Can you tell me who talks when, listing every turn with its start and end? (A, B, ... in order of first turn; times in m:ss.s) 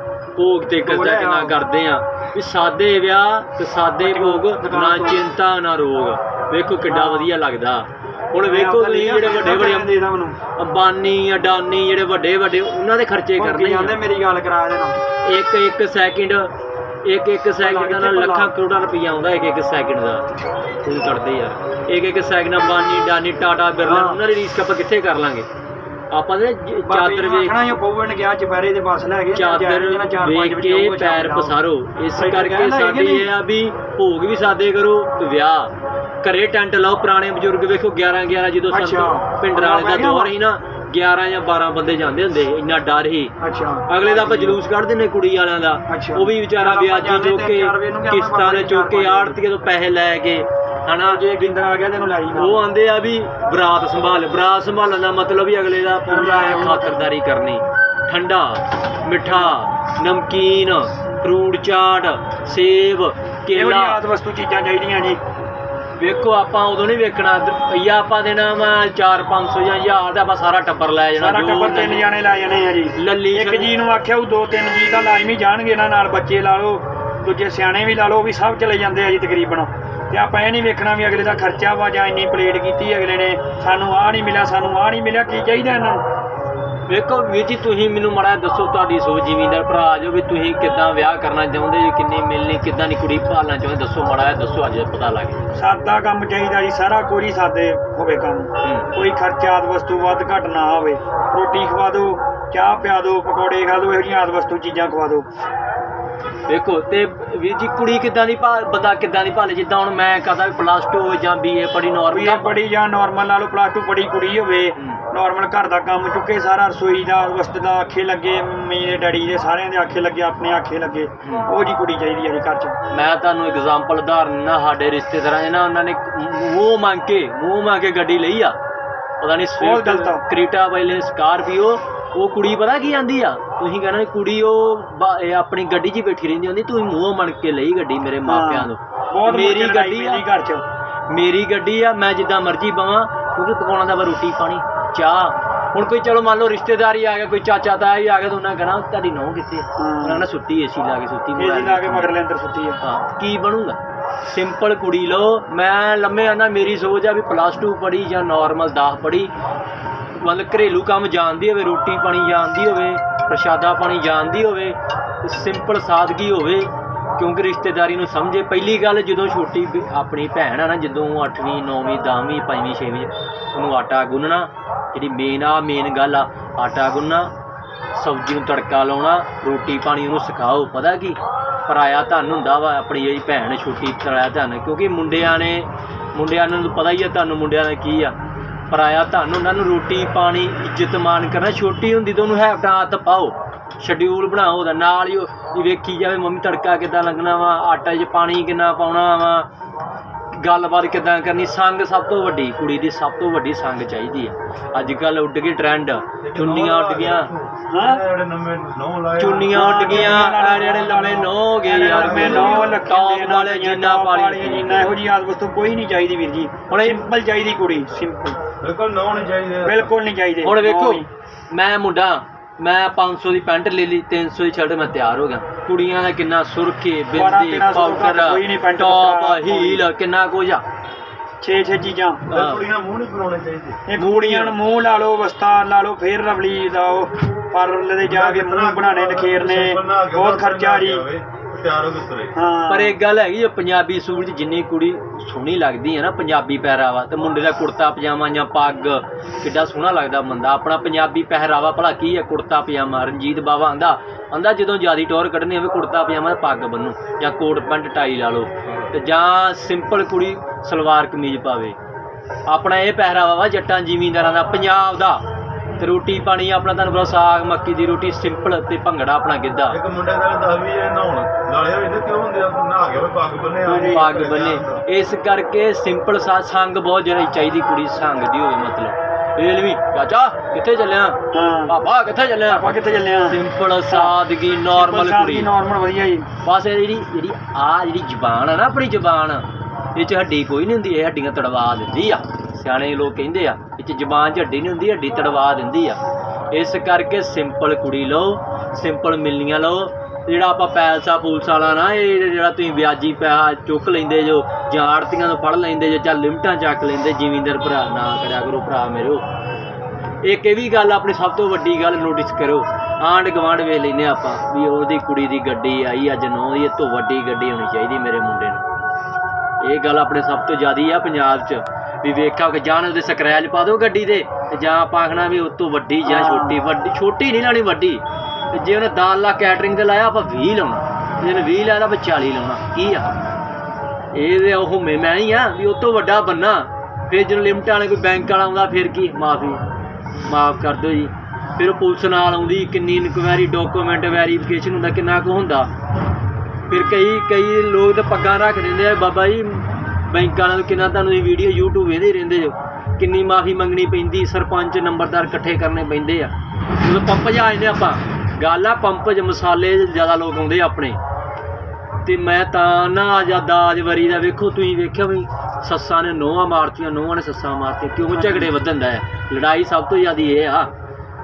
0:00.4-0:09.9 A
0:00.8-0:01.6 B
0:04.0-0:05.2 B
0:06.9-0:07.3 B
0:08.4-0:10.4 B
0:10.6-0:14.0 A
0:13.4-0:15.0 B
0:15.2-0:16.5 A
0:17.0-0:20.3 A
0:17.6-0:18.5 B
0:20.8-0:25.5 A
0:23.8-0:24.2 B
0:26.1-0:27.6 A
0:26.8-0:31.5 B
0:29.3-0:43.3 A
0:32.2-0:33.3 B
0:38.7-0:40.3 B
0:43.4-0:44.6 B
0:43.9-0:51.6 A
0:45.9-0:49.4 B
0:51.1-0:52.6 B
0:52.3-1:04.0 A
0:56.1-0:57.1 B
0:59.2-0:59.6 B
1:03.5-1:05.2 B
1:06.0-1:12.1 A
1:11.2-1:26.0 B
1:13.0-1:13.7 A
1:26.9-1:35.4 A
1:35.6-1:45.3 B
1:38.6-1:38.9 A
1:46.5-1:52.6 A
1:52.1-2:02.8 B
1:54.8-1:55.0 A
2:01.2-2:01.5 A
2:02.9-2:08.6 A
2:09.2-2:20.2 A
2:09.6-2:10.2 B
2:18.2-2:20.6 B
2:21.1-2:32.1 A
2:29.8-2:30.3 B
2:31.4-2:32.8 B
2:32.8-2:39.3 A
2:40.2-2:57.3 A
2:57.9-3:08.2 A
3:08.7-3:19.5 A
3:20.3-3:27.3 A
3:26.2-3:30.2 C
3:27.7-3:28.0 B
3:29.2-3:35.0 A
3:29.2-3:38.4 B
3:32.0-3:32.7 C
3:36.7-3:37.0 A
3:38.6-3:39.9 C
3:39.6-3:41.1 B
3:40.4-3:50.6 A
3:47.1-3:49.8 B
3:51.4-3:52.3 B
3:52.3-3:53.8 C
3:52.3-3:52.6 A
3:53.9-4:01.0 B
3:54.0-3:54.6 A
3:58.0-4:02.3 C
4:02.3-4:03.0 B
4:02.7-4:21.8 A
4:22.5-4:25.2 A
4:25.8-4:29.8 A
4:29.7-4:34.8 C
4:33.6-4:34.1 B
4:33.9-4:42.7 A
4:41.3-4:41.7 B
4:42.5-4:43.4 B
4:43.2-4:45.5 A
4:43.9-4:44.2 B
4:44.7-4:46.3 B
4:46.4-4:56.0 A
4:56.5-5:09.2 A
5:10.2-5:18.6 A
5:19.6-5:33.1 A
5:26.0-5:26.6 B
5:34.1-5:39.6 A
5:40.3-5:45.7 A
5:46.7-6:01.0 A
6:02.0-6:10.7 A
6:08.1-6:08.5 B